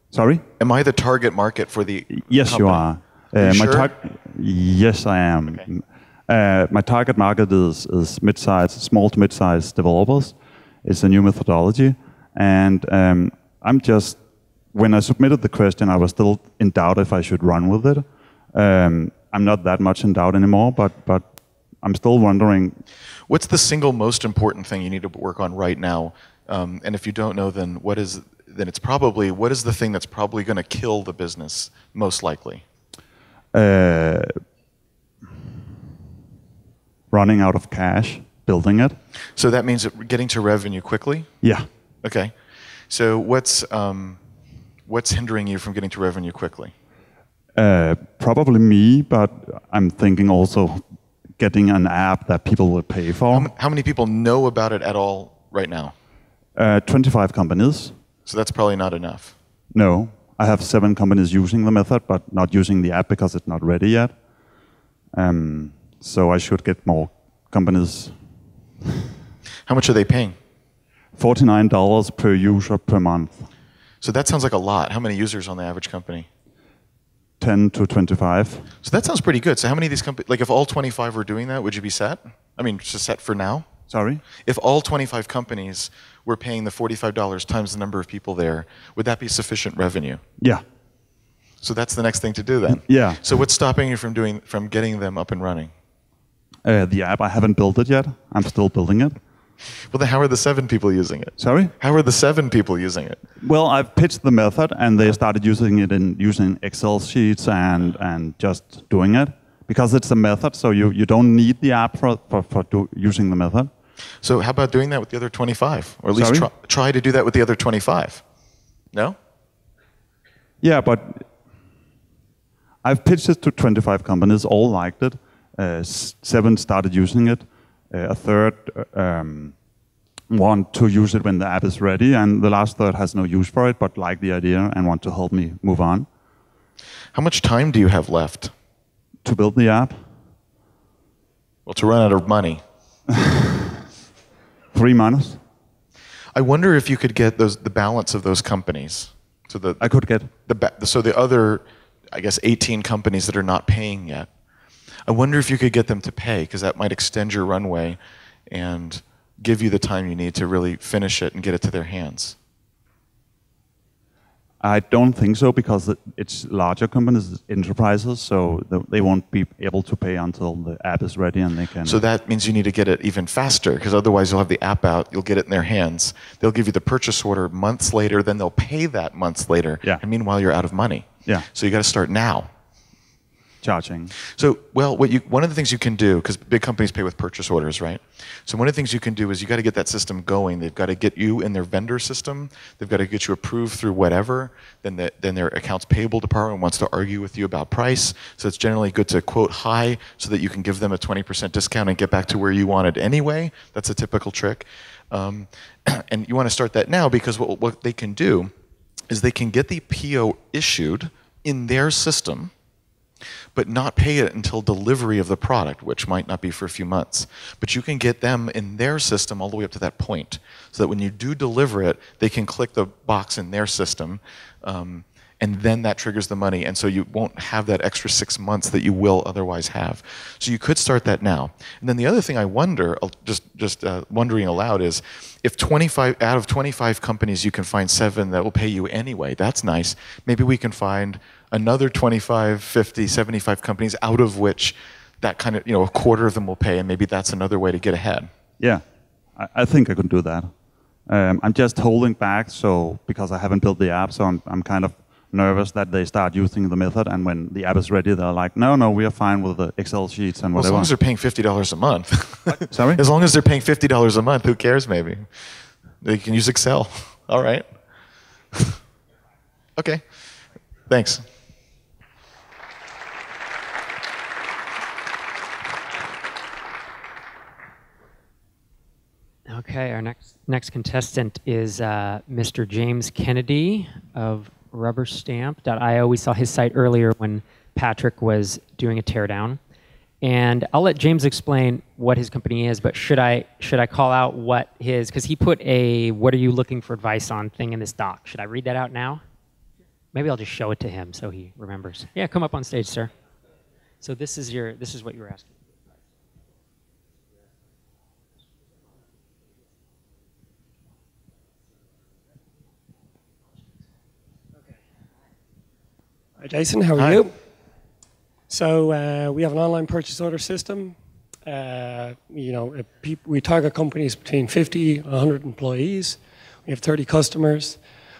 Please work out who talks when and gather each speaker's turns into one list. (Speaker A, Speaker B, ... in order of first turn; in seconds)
Speaker A: 0.1-0.5, 2.1-14.2, 14.7-22.8, 33.5-34.4, 37.1-39.0, 41.4-41.7, 47.5-50.8, 51.4-53.5, 56.5-58.0, 59.7-64.2, 65.1-68.2, 71.1-73.5, 77.4-78.7, 83.9-84.2, 90.4-90.6, 92.7-93.2, 96.7-99.2, 101.4-101.7, 103.4-113.7, 116.1-116.5, 120.6-121.3, 122.8-129.6, 130.3-136.1, 139.2-140.0, 144.7-145.4, 149.8-150.3, 164.6-172.0, 183.6-184.1, 248.6-248.8, 249.4-250.5, 251.1-260.9, 262.7-263.0
Speaker B: 0.6-3.9, 23.3-32.6, 39.4-41.4, 42.0-42.4, 42.9-44.2, 44.9-46.7, 53.3-55.9, 58.3-59.4, 69.7-70.4, 74.0-76.3, 78.8-83.7, 84.4-90.2, 91.6-95.7, 99.9-103.2, 114.2-118.2, 118.9-119.2, 137.1-138.5, 141.7-142.6, 146.3-149.9, 150.4-154.3, 155.1-158.0, 158.5-162.4, 171.8-182.5, 184.3-208.5, 209.1-212.5, 213.6-248.3, 260.6-265.3, 266.0-267.7, 268.5-268.8, 269.8-270.1, 270.9-271.2, 316.9-317.2
Speaker C: 279.5-289.6, 290.2-299.2, 300.1-303.1, 304.0-305.7
Speaker D: 316.4-317.4, 318.5-327.8